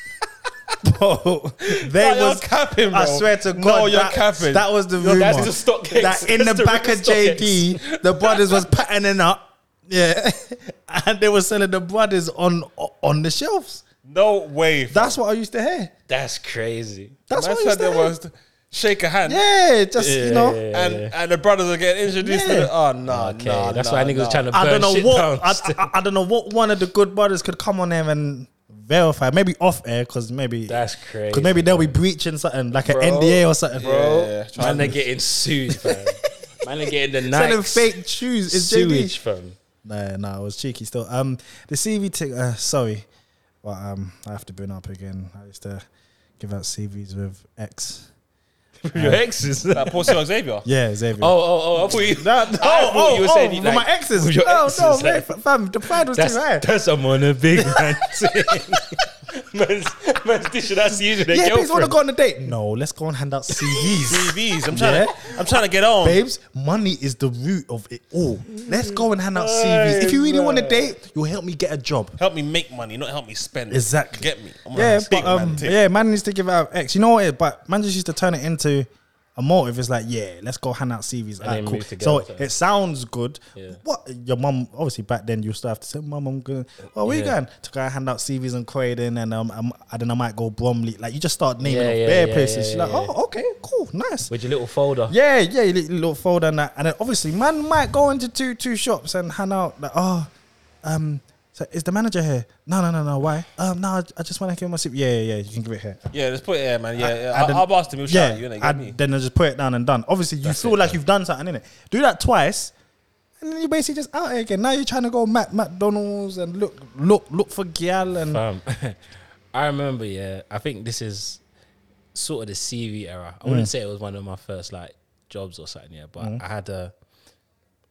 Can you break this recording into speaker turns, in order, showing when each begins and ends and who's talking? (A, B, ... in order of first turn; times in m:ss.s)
0:00.8-0:13.8 A
0:01.7-0:04.7 B
0:05.0-0:07.8 C
0:14.0-0:15.2 B
0:14.9-0:15.9 A
0:16.1-0:17.2 C
0:17.3-0:18.1 A
0:17.3-0:19.4 B
0:19.2-0:20.6 A
0:20.0-0:21.1 C
0:20.7-0:24.5 B
0:22.2-0:22.7 A
0:23.1-0:25.9 C
0:24.5-0:34.0 A
0:30.7-0:32.0 C
0:32.8-0:38.0 C
0:33.8-0:35.0 B
0:35.7-0:36.3 A
0:37.2-0:39.2 A
0:38.5-0:39.6 C
0:39.8-0:43.0 A
0:43.6-0:45.8 A
0:46.4-0:48.1 A
0:48.8-0:50.2 C
0:48.9-0:49.2 A
0:49.7-0:50.6 B
0:50.1-0:51.3 A
0:51.2-0:55.3 C
0:51.9-0:56.6 A
0:55.9-1:02.0 C
0:57.5-0:58.6 A
1:01.2-1:05.3 A
1:03.5-1:03.9 C
1:04.0-1:06.2 B
1:06.0-1:12.2 A
1:08.6-1:10.9 C
1:12.2-1:15.8 B
1:13.7-1:34.3 A
1:21.4-1:22.5 C
1:27.0-1:27.4 C
1:31.6-1:33.1 C
1:34.3-1:35.1 C
1:35.1-1:40.3 A
1:40.8-1:46.1 A
1:46.1-1:49.0 B
1:47.0-1:52.7 A
1:50.4-1:51.0 C
1:53.4-1:58.4 A
1:58.2-1:59.0 C
1:59.5-2:01.4 C
2:02.1-2:06.9 C
2:03.4-2:03.7 A